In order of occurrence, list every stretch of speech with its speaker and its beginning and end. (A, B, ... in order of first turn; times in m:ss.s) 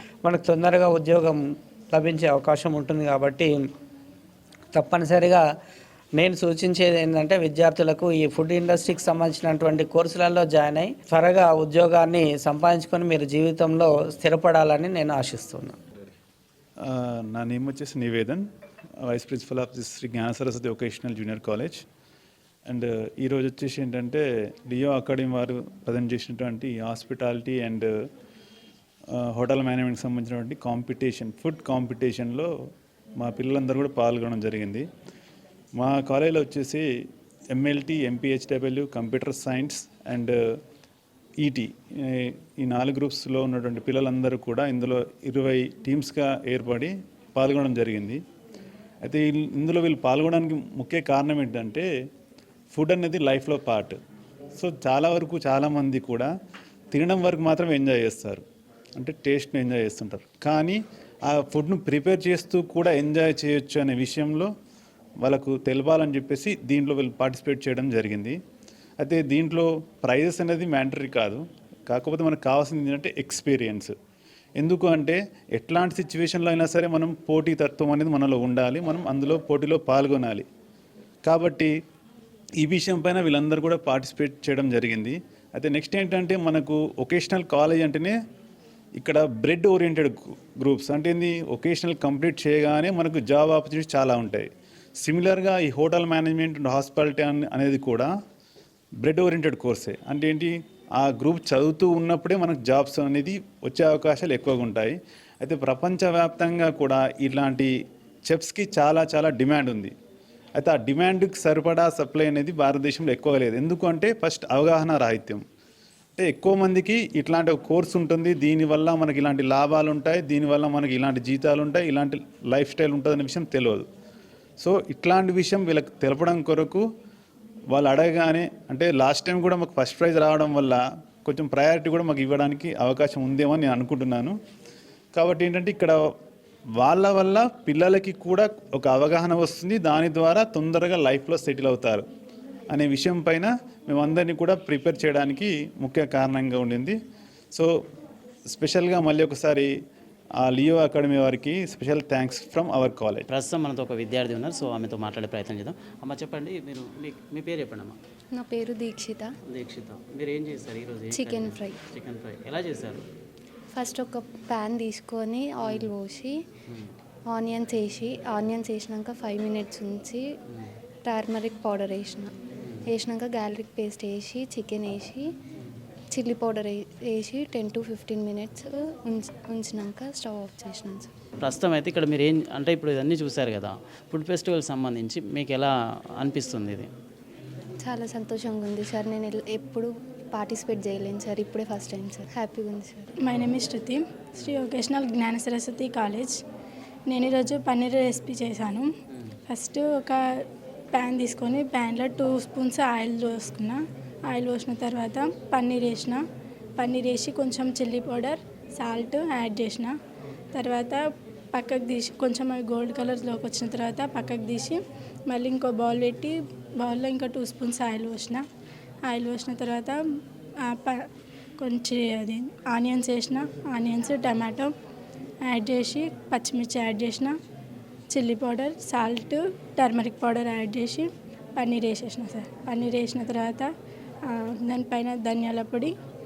0:00.2-0:01.4 A
0:01.9-0:03.6 A
0:04.7-0:05.4 A
0:06.2-0:15.8 A
0:16.9-0:18.4 B
0:19.1-0:21.8 B
0:22.7-0:27.9 B
0:29.2-0:32.5 B
0:33.2-0:34.9 B
0:35.8-0:36.8 B
0:37.5-0:40.4 B
0:41.4-0:48.2 B
0:49.0-0:51.8 B
0:52.7-0:54.0 B
0:54.6-0:56.3 B
0:56.9-0:58.4 B
0:59.0-1:00.8 B
1:01.3-1:04.5 B
1:05.2-1:08.4 B
1:09.0-1:13.9 B
1:14.6-1:20.5 B
1:21.2-1:21.7 B
1:22.6-1:28.2 B
1:29.0-1:34.5 B
1:35.0-1:38.1 B
1:39.0-1:47.7 B
1:48.3-1:49.9 B
1:50.6-1:55.4 B
1:56.2-2:03.9 B
2:04.6-2:06.8 B
2:07.7-2:14.3 B
2:15.1-2:16.0 B
2:16.8-2:22.0 B
2:22.7-2:27.0 B
2:28.5-2:29.7 B
2:30.4-2:33.2 B
2:33.3-2:38.0 C
2:38.3-2:39.3 D
2:39.5-2:43.0 C
2:41.2-2:41.7 D
2:43.7-2:46.4 D
2:45.6-2:45.9 C
2:47.3-2:50.2 D
2:51.0-2:52.3 D
2:52.9-2:55.3 D
2:56.1-3:01.1 D
3:01.4-3:06.9 C
3:07.8-3:13.1 D
3:13.2-3:16.4 E
3:17.1-3:18.9 E
3:19.5-3:26.2 E
3:26.8-3:30.0 E
3:30.5-3:38.4 E
3:39.0-3:40.0 E
3:40.6-3:41.0 E
3:41.6-3:44.7 E
3:45.4-3:47.4 E
3:48.1-3:53.7 E
3:54.2-3:56.0 E